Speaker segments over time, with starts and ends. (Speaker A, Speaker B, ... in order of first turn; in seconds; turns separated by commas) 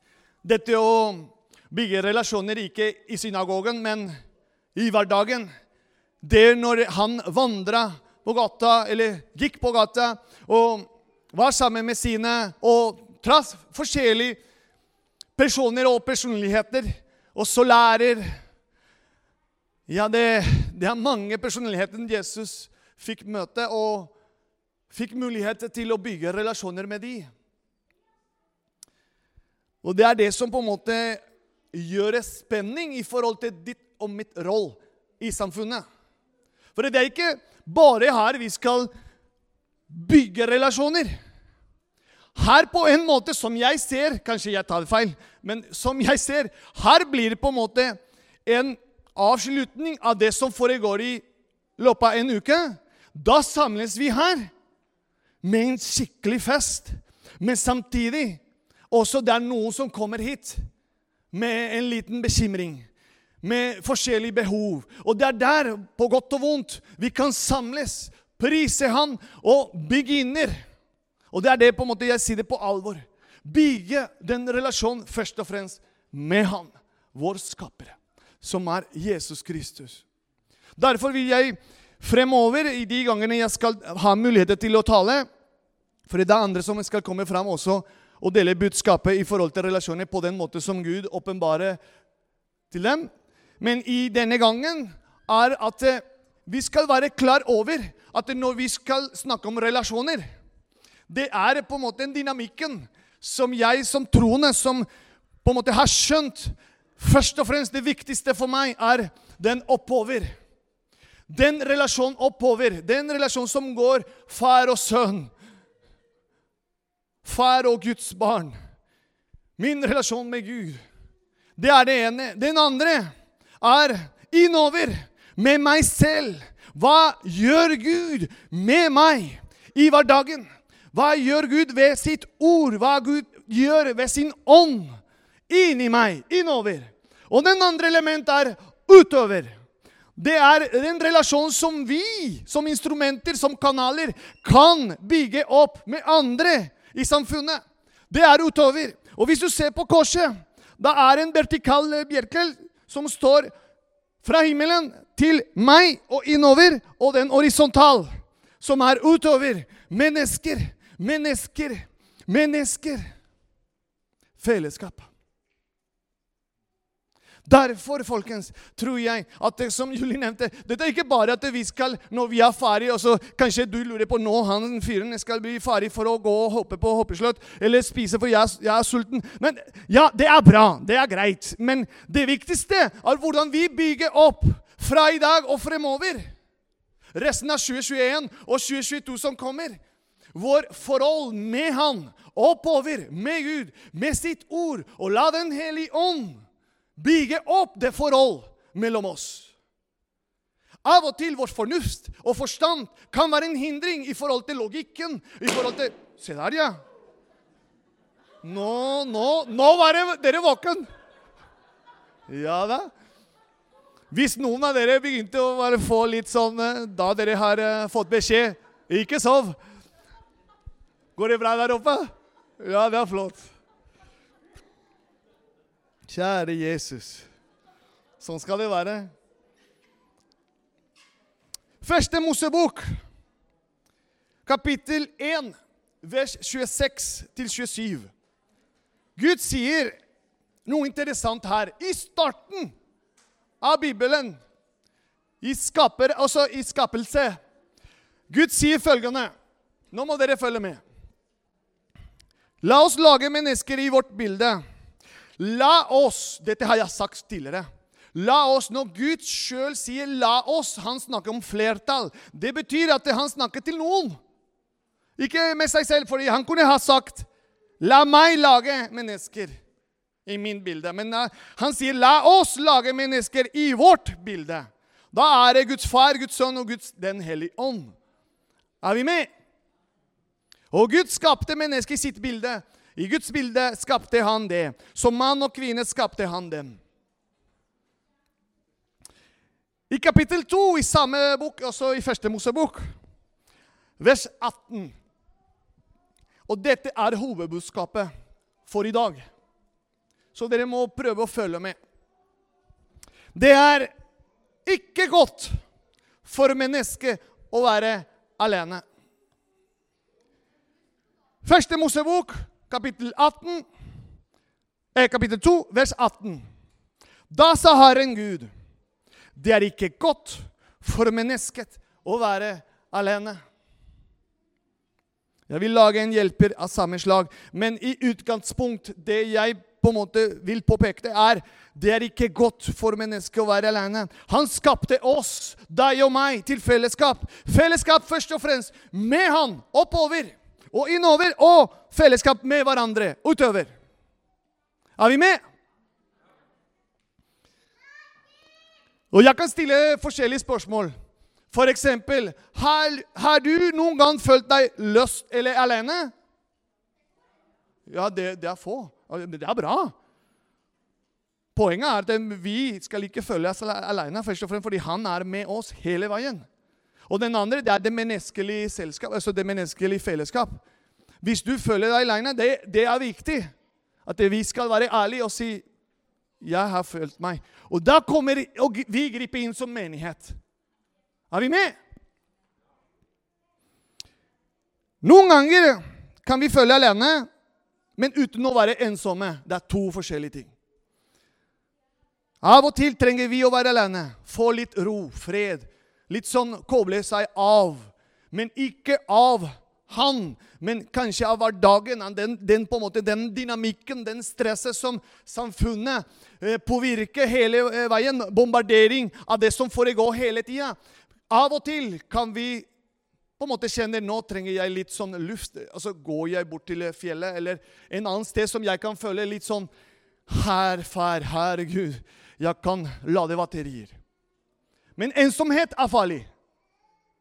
Speaker A: 0.4-4.1, Speaker A: 4.7-5.5, Speaker A: 6.2-14.4, Speaker A: 15.3-18.4, Speaker A: 19.9-24.1, Speaker A: 24.9-27.3, Speaker A: 29.8-31.2, Speaker A: 31.7-35.8, Speaker A: 36.7-38.9, Speaker A: 39.9-41.2, Speaker A: 42.3-51.2, Speaker A: 51.8-54.5, Speaker A: 55.4-60.6, Speaker A: 61.3-62.9, Speaker A: 63.4-70.6, Speaker A: 71.3-80.0, Speaker A: 80.8-85.2, Speaker A: 86.1-91.8, Speaker A: 92.7-100.2, Speaker A: 101.1-104.8, Speaker A: 105.4-110.3, Speaker A: 111.3-115.3, Speaker A: 117.2-118.5, Speaker A: 119.6-120.8, Speaker A: 121.6-134.9, Speaker A: 135.5-139.5, Speaker A: 140.2-153.5, Speaker A: 154.2-158.1, Speaker A: 158.6-163.1, Speaker A: 164.4-165.1, Speaker A: 167.4-186.3, Speaker A: 187.1-189.8, Speaker A: 190.3-196.4, Speaker A: 197.0-199.5, Speaker A: 200.8-206.8, Speaker A: 208.4-210.8, Speaker A: 212.3-212.9, Speaker A: 214.1-219.6, Speaker A: 221.2-223.5, Speaker A: 226.1-227.3, Speaker A: 228.2-229.1, Speaker A: 231.8-233.0, Speaker A: 234.4-238.1, Speaker A: 239.2-239.9, Speaker A: 240.7-242.7, Speaker A: 243.6-244.4, Speaker A: 245.4-247.4, Speaker A: 248.3-249.3, Speaker A: 249.9-250.8, Speaker A: 252.6-254.6, Speaker A: 255.4-264.1, Speaker A: 265.2-267.3, Speaker A: 267.8-269.5, Speaker A: 270.2-277.9, Speaker A: 278.8-279.3, Speaker A: 280.7-286.8, Speaker A: 289.9-292.8, Speaker A: 294.0-294.9, Speaker A: 296.5-298.1, Speaker A: 298.6-299.3, Speaker A: 300.3-301.8, Speaker A: 303.3-303.9, Speaker A: 304.6-305.6, Speaker A: 306.2-308.8, Speaker A: 311.4-313.6, Speaker A: 314.9-316.4, Speaker A: 317.3-318.5, Speaker A: 319.4-323.4, Speaker A: 325.5-343.7, Speaker A: 345.0-345.4, Speaker A: 349.1-350.9, Speaker A: 351.5-356.1, Speaker A: 357.9-359.9, Speaker A: 361.5-366.4, Speaker A: 367.1-370.6, Speaker A: 371.2-373.5, Speaker A: 374.0-375.6, Speaker A: 376.4-380.4, Speaker A: 381.3-381.8, Speaker A: 385.0-387.3, Speaker A: 388.0-390.5, Speaker A: 392.4-410.8, Speaker A: 411.3-412.6, Speaker A: 413.4-419.7, Speaker A: 420.3-424.0, Speaker A: 425.0-426.3